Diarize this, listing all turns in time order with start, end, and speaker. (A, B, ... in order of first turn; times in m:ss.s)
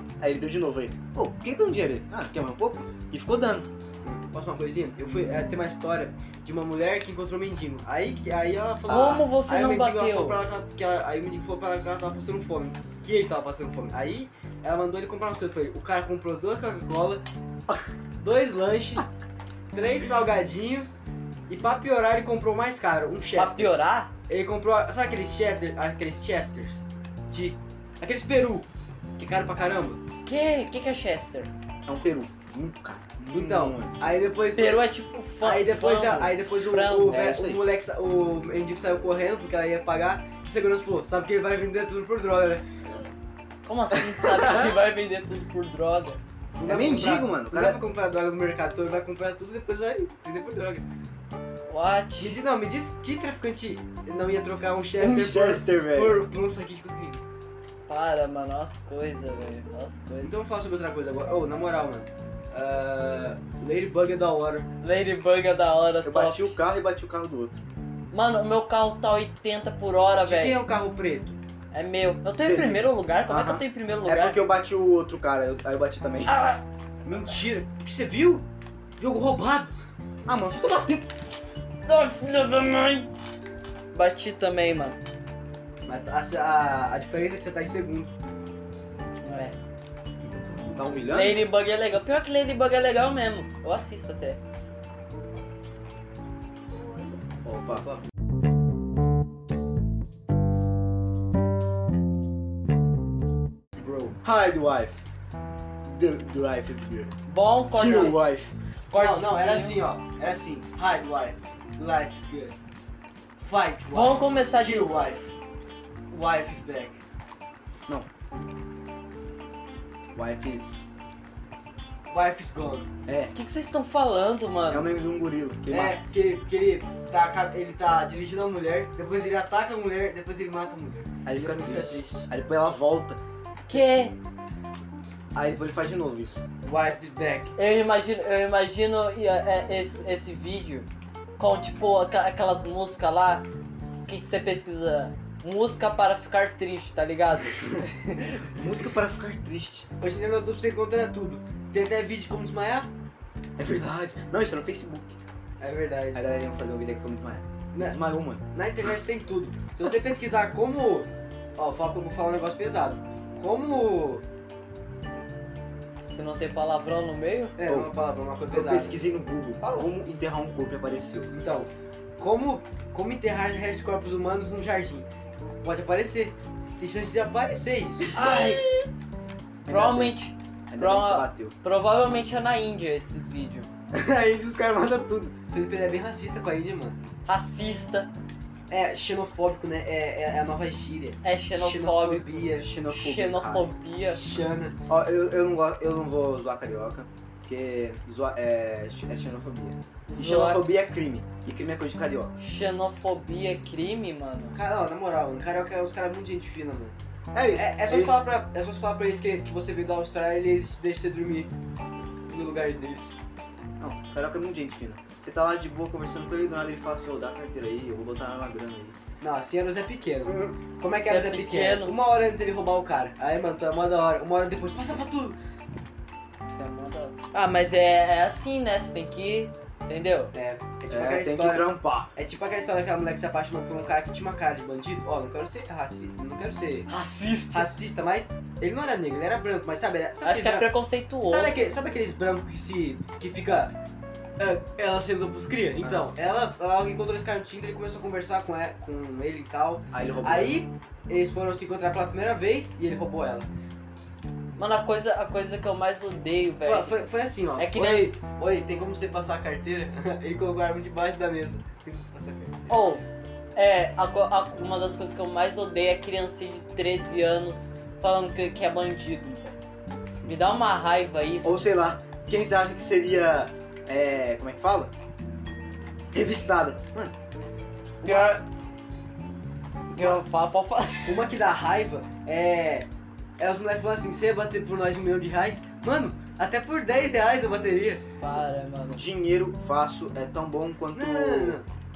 0:00.2-0:03.7 A
0:04.0-0:17.2 B
0:08.9-0:10.4 C
0:18.2-0:19.1 B
0:19.7-0:20.9 B
0:21.5-0:23.8 B
0:23.4-0:24.1 C
0:24.3-0:28.7 B
0:29.2-0:30.0 B
0:30.2-0:31.5 C
0:31.8-0:34.0 A
0:33.3-0:42.6 B
0:34.5-0:37.2 C
0:37.0-0:37.6 A
0:43.6-0:46.2 C
0:46.6-0:50.8 B
0:46.6-0:47.8 A
0:51.7-0:52.4 C
0:52.2-0:57.2 B
0:55.0-0:56.2 A
0:57.9-1:00.3 C
1:00.2-1:04.7 B
1:04.8-1:06.6 C
1:06.0-1:07.6 A
1:08.1-1:10.6 C
1:10.2-1:11.4 B
1:11.7-1:14.4 C
1:12.4-1:16.4 A
1:16.3-1:16.6 C
1:17.0-1:18.4 B
1:19.0-1:19.7 B
1:20.2-1:21.1 A
1:21.8-1:23.1 C
1:23.9-1:25.0 C
1:25.8-1:28.1 B
1:29.2-1:29.5 C
1:30.2-1:31.1 B
1:30.5-1:31.4 A
1:31.1-1:34.4 C
1:37.4-1:37.8 A
1:43.8-1:44.2 B
1:44.2-1:45.0 A
1:45.8-1:47.1 A
1:47.3-1:48.2 C
1:47.7-1:48.5 A
1:48.9-1:49.8 C
1:48.9-1:52.5 B
1:53.4-1:55.3 B
1:53.9-1:55.1 C
1:56.1-1:57.0 B
2:00.1-2:00.9 A
2:02.1-2:02.9 B
2:03.1-2:03.3 A
2:03.3-2:04.9 C
2:04.7-2:06.0 A
2:05.7-2:12.3 B
2:11.2-2:13.2 A
2:13.7-2:14.2 C
2:15.3-2:16.4 A
2:16.6-2:17.5 B
2:17.6-2:23.4 C
2:24.0-2:27.6 C
2:28.5-2:29.9 A
2:30.0-2:32.9 B
2:33.6-2:35.2 A
2:35.6-2:36.2 B
2:36.1-2:38.4 A
2:37.7-2:44.2 B
2:46.1-2:47.5 C
2:47.6-2:49.0 B
2:47.6-2:47.9 A
2:48.5-2:51.3 A
2:49.6-2:49.9 B
2:51.3-2:55.1 B
2:55.6-2:58.4 B
2:58.1-2:58.7 C
2:58.2-2:58.7 A
2:59.6-3:00.2 A
2:59.7-3:03.7 C
3:00.7-3:01.5 A
3:03.9-3:05.4 A
3:05.5-3:07.0 B
3:07.2-3:08.1 C
3:08.7-3:12.7 B
3:11.2-3:14.2 C
3:12.6-3:13.7 A
3:14.2-3:14.8 B
3:14.9-3:22.4 A
3:20.1-3:20.6 C
3:22.4-3:24.6 C
3:24.5-3:27.0 B
3:27.3-3:28.2 A
3:27.5-3:31.5 B
3:32.3-3:33.1 B
3:33.8-3:39.0 A
3:39.2-3:45.4 B
3:41.0-3:41.9 C
3:46.5-3:50.3 C
3:50.3-3:56.9 B
3:50.9-3:52.1 A
3:56.9-3:57.7 C
3:57.5-4:00.7 B
4:00.2-4:01.6 C
4:01.2-4:03.7 B
4:04.4-4:13.5 B
4:05.8-4:06.1 A
4:09.9-4:10.6 A
4:14.6-4:17.0 C
4:16.6-4:22.7 B
4:17.6-4:18.2 C
4:22.7-4:23.0 C
4:23.6-4:29.4 C
4:30.2-4:31.7 C
4:31.4-4:34.9 A
4:36.1-4:37.1 A
4:38.0-4:38.4 B
4:38.0-4:38.4 C
4:39.9-4:41.2 C
4:41.0-4:42.9 B
4:43.4-4:48.0 B
4:48.2-4:49.0 C
4:48.9-4:51.6 A
4:50.9-4:51.7 B